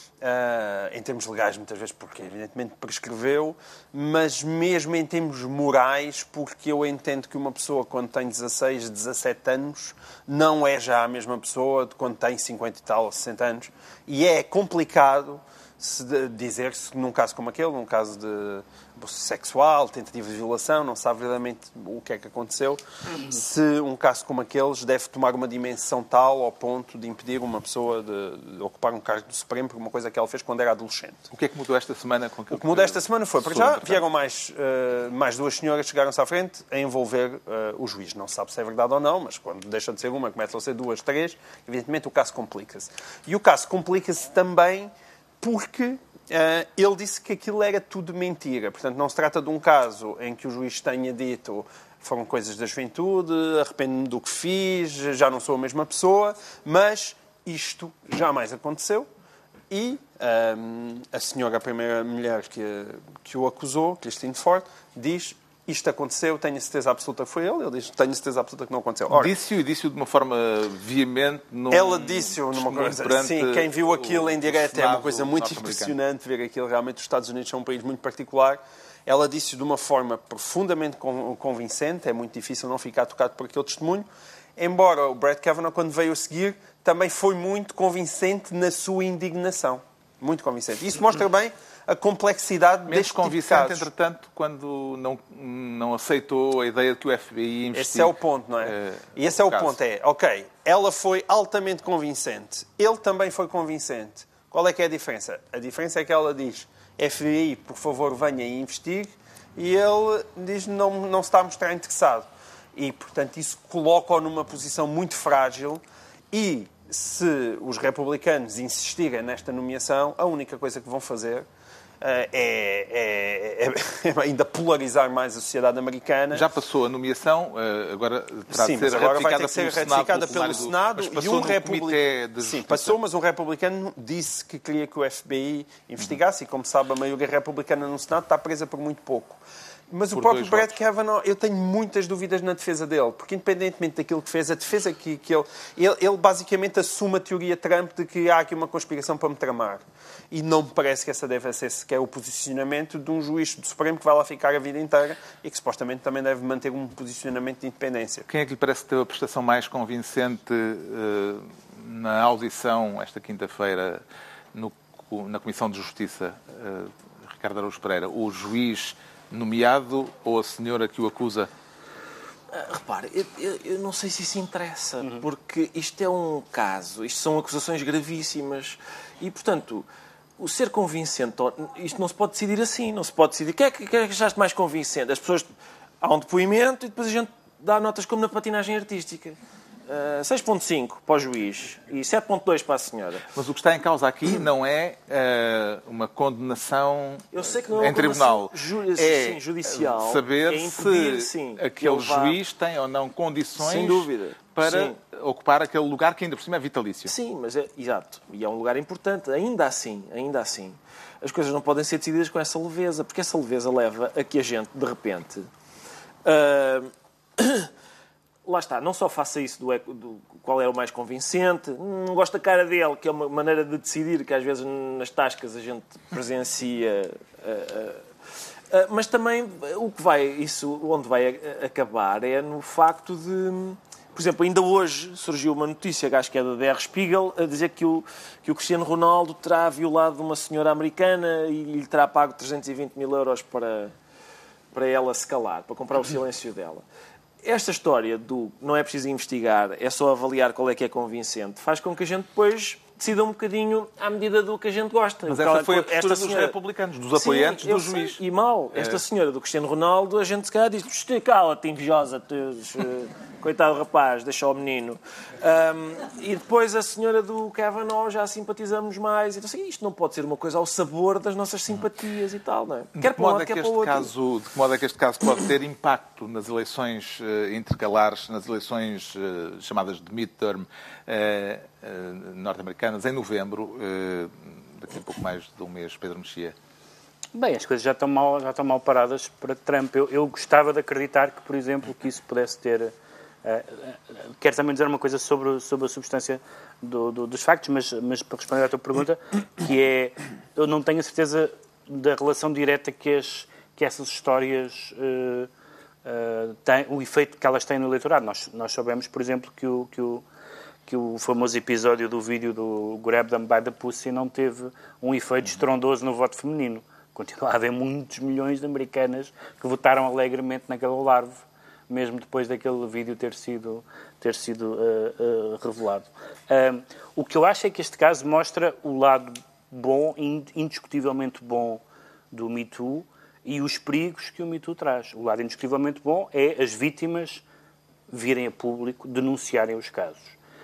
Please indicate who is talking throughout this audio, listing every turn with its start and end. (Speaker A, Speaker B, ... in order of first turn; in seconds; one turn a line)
Speaker A: 0.2-31.3
Speaker B: 31.3-34.0
Speaker A: 32.5-59.1
Speaker A: 59.7-69.3
Speaker B: 69.1-75.9
Speaker A: 71.7-93.9
Speaker B: 92.9-99.8
Speaker A: 97.7-121.5
Speaker A: 122.0-126.5
Speaker B: 126.3-133.0
Speaker A: 128.5-158.3
Speaker B: 140.1-140.7
Speaker B: 158.3-164.0
Speaker B: 164.5-171.5
Speaker C: 172.5-179.9
Speaker C: 180.4-185.5
Speaker C: 186.0-193.2
Speaker B: 193.3-207.1
Speaker C: 197.3-202.4
Speaker C: 203.6-205.0
Speaker C: 207.1-215.5
Speaker C: 216.2-217.7
Speaker C: 218.4-228.0
Speaker C: 228.7-243.9
Speaker C: 244.7-246.8
Speaker C: 247.4-256.5
Speaker B: 255.3-258.2
Speaker C: 257.1-274.1
Speaker B: 258.7-259.0
Speaker B: 273.0-286.5
Speaker D: 287.3-292.9
Speaker D: 293.4-305.5
Speaker D: 306.0-310.2
Speaker D: 310.9-337.4
Speaker D: 338.1-340.4